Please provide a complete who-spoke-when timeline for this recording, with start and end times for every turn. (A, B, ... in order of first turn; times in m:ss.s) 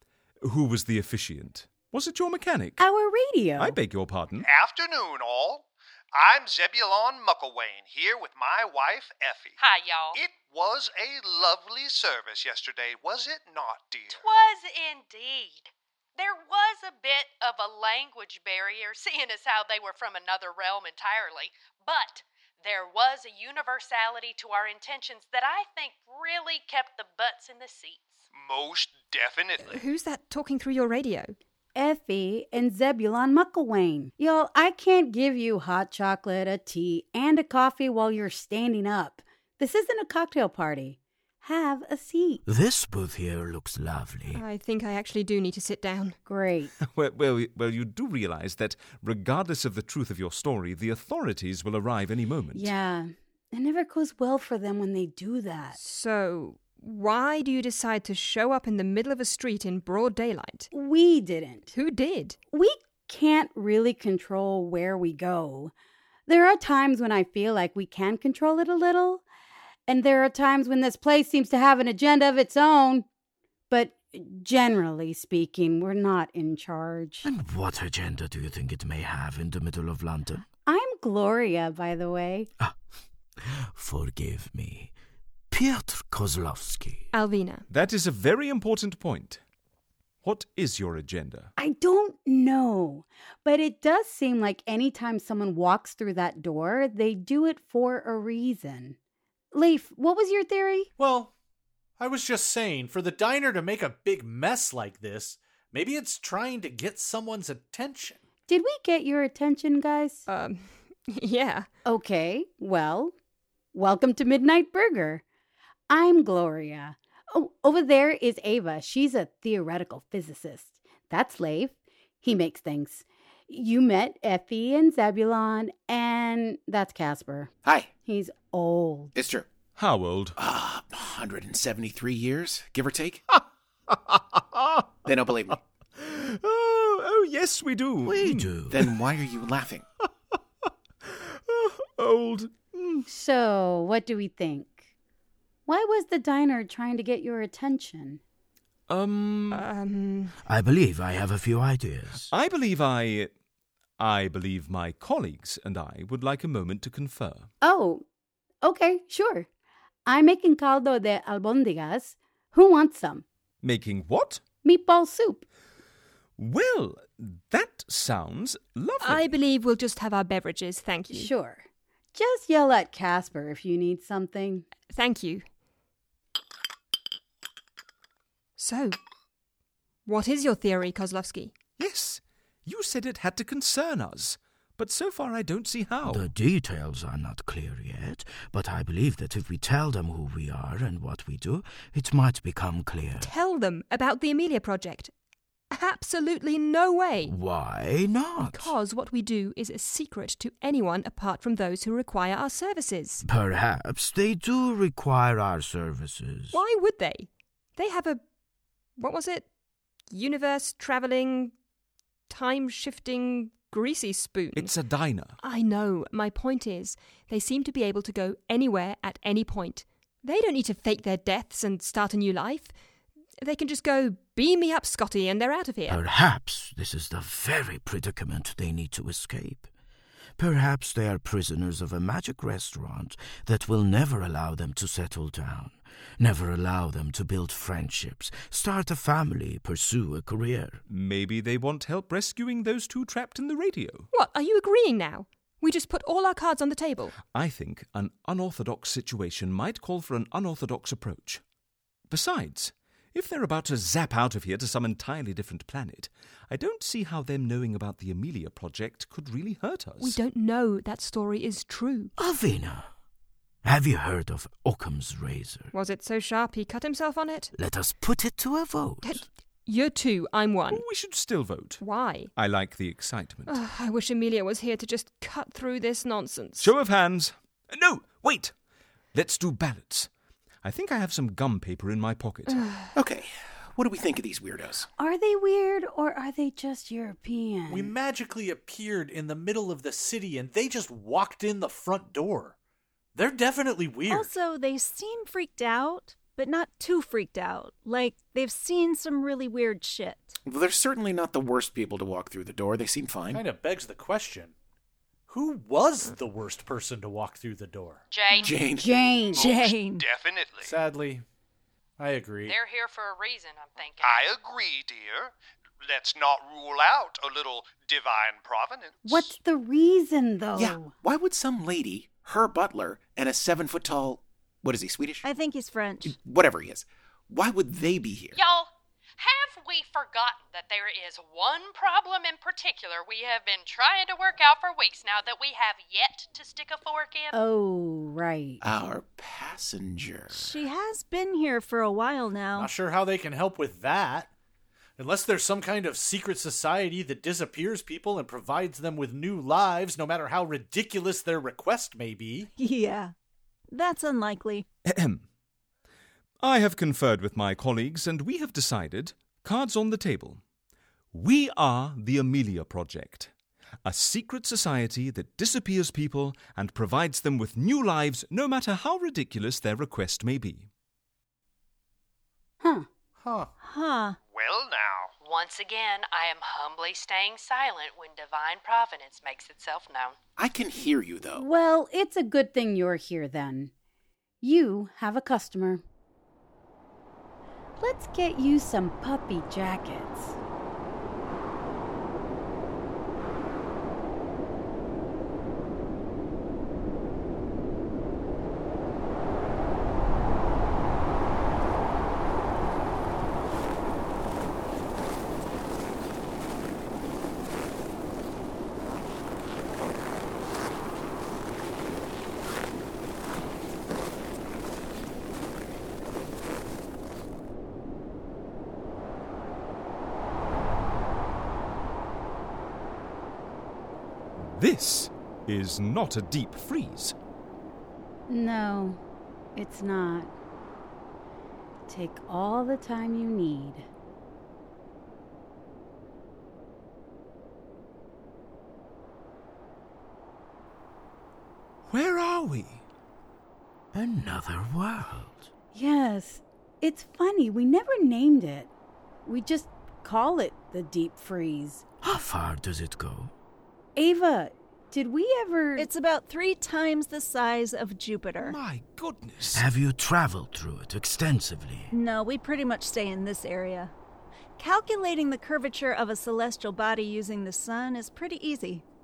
0:00.4-0:02.8 A
0:02.8-0:03.8 B
0:03.6-0:04.5 A
0:04.4-0:09.6 C
0:09.6-0:10.2 D
0:10.1-0:14.2 C
0:14.1-0:28.2 D
0:28.3-0:29.8 C
0:29.6-0:31.3 E
0:31.7-0:42.4 B
0:42.4-0:44.4 F
0:44.3-0:46.2 E
0:46.2-0:46.7 B
0:46.8-0:52.7 A
0:52.5-0:55.8 B
0:55.8-1:00.7 E
1:00.7-1:01.7 B
1:01.7-1:02.4 E
1:02.5-1:05.7 B
1:06.3-1:09.2 B
1:09.9-1:13.0 B
1:13.7-1:17.3 B
1:17.2-1:20.4 F
1:20.6-1:22.5 B
1:23.4-1:24.9 F
1:25.5-1:27.1 F
1:27.1-1:27.6 E
1:27.7-1:29.4 A
1:30.2-1:31.5 A
1:31.6-1:39.0 B
1:39.5-1:40.9 B
1:41.0-1:41.3 G
1:42.0-1:48.2 G
1:48.5-1:50.2 B
1:50.3-1:51.7 E
1:51.8-1:53.1 B
1:53.7-1:55.2 B
1:55.9-2:07.5 B
2:07.6-2:07.9 H
2:08.0-2:09.1 B
2:09.1-2:09.5 H
2:09.8-2:10.4 A
2:10.4-2:13.2 H
2:15.0-2:15.6 H
2:16.0-2:18.5 A
2:18.0-2:18.9 F
2:18.7-2:19.8 H
2:21.0-2:23.0 A
2:23.1-2:24.9 B
2:25.7-2:28.2 B
2:28.9-2:29.6 A
2:29.5-2:30.3 E
2:30.4-2:32.3 F
2:32.2-2:33.3 A
2:34.0-2:37.5 A
2:37.6-2:38.0 B
2:38.6-2:39.5 B
2:40.0-2:43.2 B
2:43.6-2:44.4 A
2:44.6-2:45.4 B
2:46.4-2:49.3 A
2:49.0-2:51.3 E
2:51.1-2:54.6 B
2:54.9-2:55.4 E
2:58.6-2:59.0 E
3:00.0-3:01.5 E
3:01.8-3:06.3 A
3:06.0-3:13.3 F
3:13.2-3:15.1 E
3:15.7-3:17.4 E
3:17.2-3:18.7 F
3:18.4-3:23.2 E
3:23.2-3:26.6 F
3:26.5-3:28.2 E
3:29.0-3:29.4 E
3:30.1-3:31.5 E
3:32.3-3:34.7 E
3:34.5-3:35.4 A
3:35.4-3:42.7 E
3:43.4-3:46.0 E
3:45.9-3:49.7 F
3:50.4-4:00.8 F
4:00.9-4:04.1 A
4:04.1-4:07.2 E
4:07.2-4:11.4 A
4:12.1-4:20.2 A
4:20.0-4:22.1 E
4:22.2-4:22.9 F
4:23.6-4:25.7 F
4:25.7-4:27.5 E
4:27.5-4:29.2 F
4:29.0-4:30.8 E
4:30.7-4:31.8 A
4:31.8-4:32.3 E
4:32.3-4:33.6 A
4:33.5-4:36.7 E
4:36.6-4:38.5 A
4:39.1-4:40.1 A
4:40.6-4:42.7 A
4:42.5-4:42.9 E
4:43.0-4:44.9 H
4:45.0-4:47.9 B
4:47.7-4:52.5 G
4:53.1-4:54.3 G
4:54.1-5:00.4 I
5:00.4-5:03.4 H
5:03.3-5:04.5 G
5:05.3-5:08.0 G
5:08.1-5:08.5 D
5:08.4-5:08.9 H
5:08.8-5:09.4 B
5:09.3-5:10.7 C
5:09.4-5:10.0 I
5:10.6-5:11.2 G
5:12.0-5:12.6 G
5:12.4-5:14.2 D
5:14.0-5:19.3 C
5:19.0-5:20.9 B
5:20.6-5:25.2 H
5:25.2-5:26.2 I
5:26.0-5:28.4 H
5:28.3-5:37.3 D
5:37.3-5:38.6 B
5:38.6-5:40.6 H
5:40.3-5:42.7 I
5:42.6-5:44.3 G
5:45.0-5:52.5 G
5:52.6-5:53.1 I
5:53.7-5:54.7 I
5:54.8-5:55.2 A
5:56.4-6:00.4 A
6:01.1-6:03.3 A
6:03.8-6:10.7 A
6:12.6-6:12.9 B
6:13.2-6:13.5 G
6:13.6-6:14.2 I
6:14.2-6:15.1 C
6:15.2-6:20.2 D
6:20.4-6:21.4 H
6:21.3-6:23.7 B
6:24.4-6:25.8 B
6:27.8-6:30.4 B
7:04.4-7:07.1 A
7:08.3-7:09.0 B
7:09.6-7:10.3 B
7:11.9-7:13.9 B
7:21.9-7:22.8 A
7:23.9-7:25.5 F
7:25.7-7:28.7 B
7:29.2-7:31.8 B
7:32.0-7:33.3 F
7:34.0-7:35.9 B
7:35.8-7:38.6 I
7:38.4-7:39.6 A
7:39.5-7:41.9 F
7:41.9-7:43.9 I
7:44.6-7:48.8 I